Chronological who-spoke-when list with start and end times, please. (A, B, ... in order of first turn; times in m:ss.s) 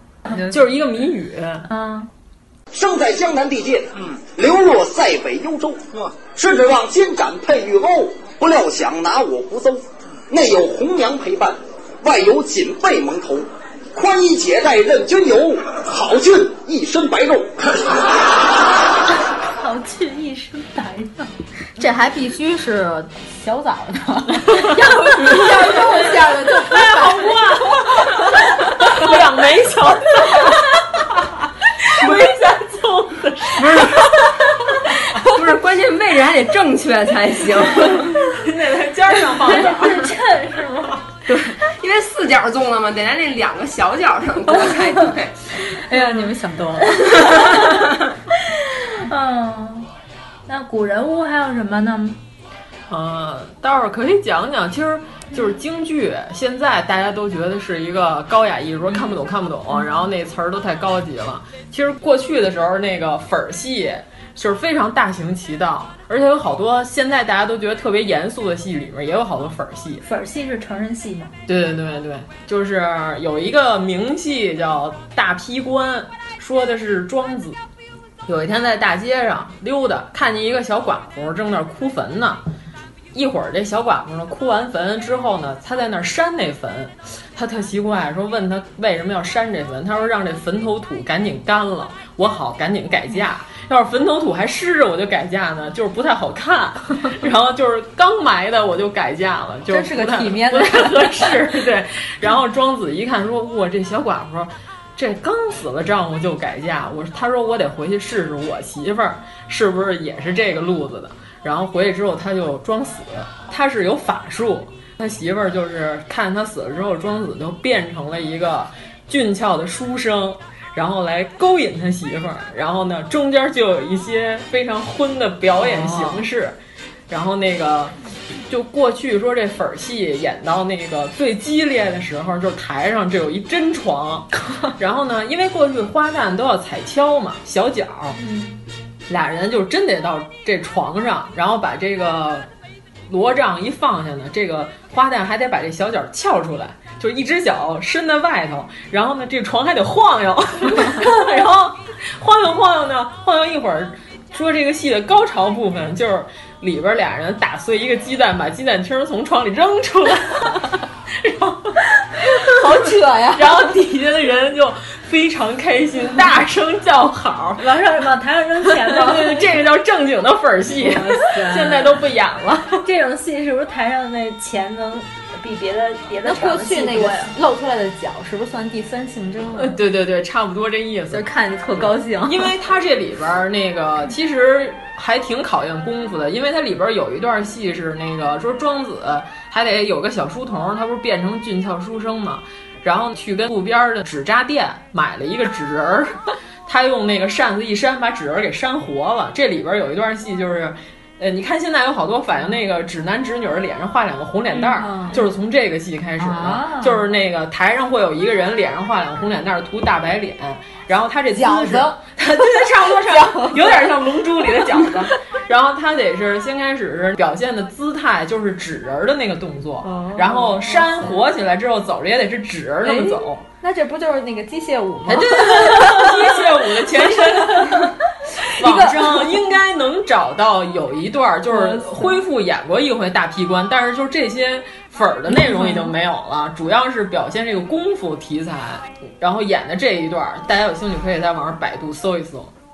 0:00.3-0:01.7 A
0:01.7-0:02.1 B
0:02.7-0:18.0 C
0:19.6-0:21.4 B
0:21.8-0:28.3 D
0:25.1-0:25.9 A
0:26.6-0:34.2 A
0:32.0-0:32.4 E
0:33.6-0:34.2 E
0:35.2-0:38.1 E
0:37.8-0:40.1 A
0:39.5-0:41.0 B
0:41.3-0:45.6 E
0:45.7-0:47.4 D
0:48.7-0:49.9 B
0:50.5-0:52.2 B
0:52.9-1:10.0 A
1:10.0-1:11.3 B
1:11.5-1:17.6 A
1:18.3-1:22.4 A
1:23.1-2:06.6 A
1:39.7-1:41.6 D
2:05.6-2:06.3 D
2:07.1-2:08.0 A
2:08.5-2:18.2 A
2:18.2-2:18.6 B
2:19.1-2:22.5 A
2:23.1-2:47.7 A
2:42.2-2:43.8 D
2:47.6-2:49.5 B
2:48.8-2:52.8 A
2:50.8-2:52.0 D
2:52.8-2:57.3 B
2:56.2-2:59.8 D
2:59.6-3:43.4 A
3:01.1-3:02.6 D
3:24.6-3:25.2 D
3:26.2-3:27.0 D
3:31.3-3:34.0 D
3:39.8-3:41.2 D
3:42.8-3:47.9 D
3:45.1-3:48.0 A
3:48.5-4:02.5 A
3:48.6-3:49.4 D
3:51.5-3:52.1 D
3:55.3-3:55.9 D